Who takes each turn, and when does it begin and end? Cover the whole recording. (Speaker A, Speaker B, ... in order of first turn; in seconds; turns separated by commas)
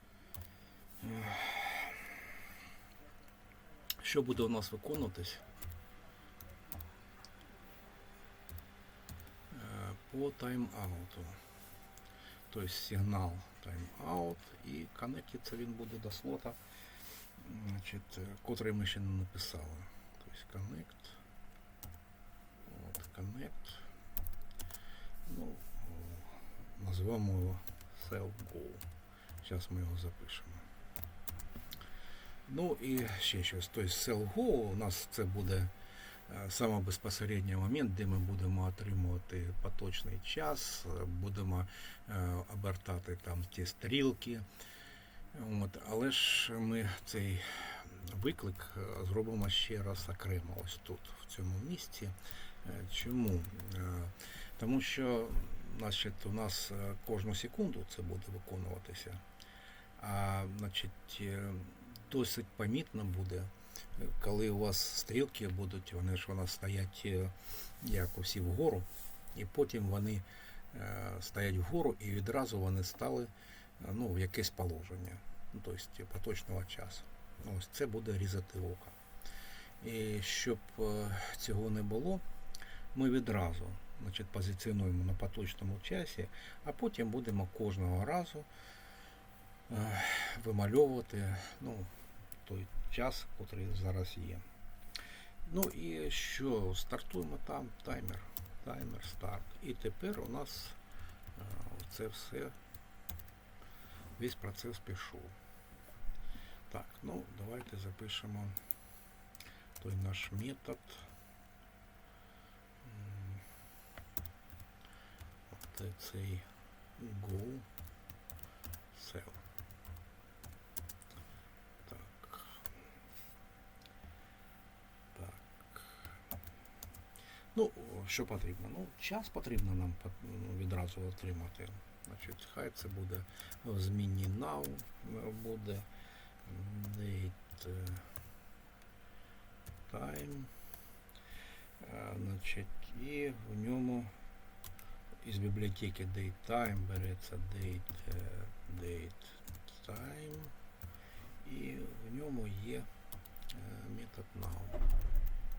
Speaker A: 1.0-2.0, Speaker A: 4.0-5.5, Speaker A: 9.5-11.4, Speaker A: 12.5-16.6, Speaker A: 17.4-21.2, Speaker A: 22.6-23.9, Speaker A: 25.2-28.9, Speaker A: 29.4-30.6, Speaker A: 32.5-35.7, Speaker A: 36.3-44.5, Speaker A: 45.3-59.2, Speaker A: 60.0-79.0, Speaker A: 79.8-82.2, Speaker A: 82.9-88.5, Speaker A: 89.7-91.9, Speaker A: 92.4-94.4, Speaker A: 95.4-100.8, Speaker A: 101.3-102.5, Speaker A: 104.2-105.3, Speaker A: 106.7-108.6, Speaker A: 109.8-111.1, Speaker A: 112.8-113.4, Speaker A: 115.5-117.7, Speaker A: 118.9-119.4, Speaker A: 121.8-122.7, Speaker A: 125.1-126.1, Speaker A: 127.5-135.8, Speaker A: 136.4-138.1, Speaker A: 139.9-140.5, Speaker A: 141.8-144.1, Speaker A: 145.2-150.5, Speaker A: 151.4-152.9, Speaker A: 153.5-154.8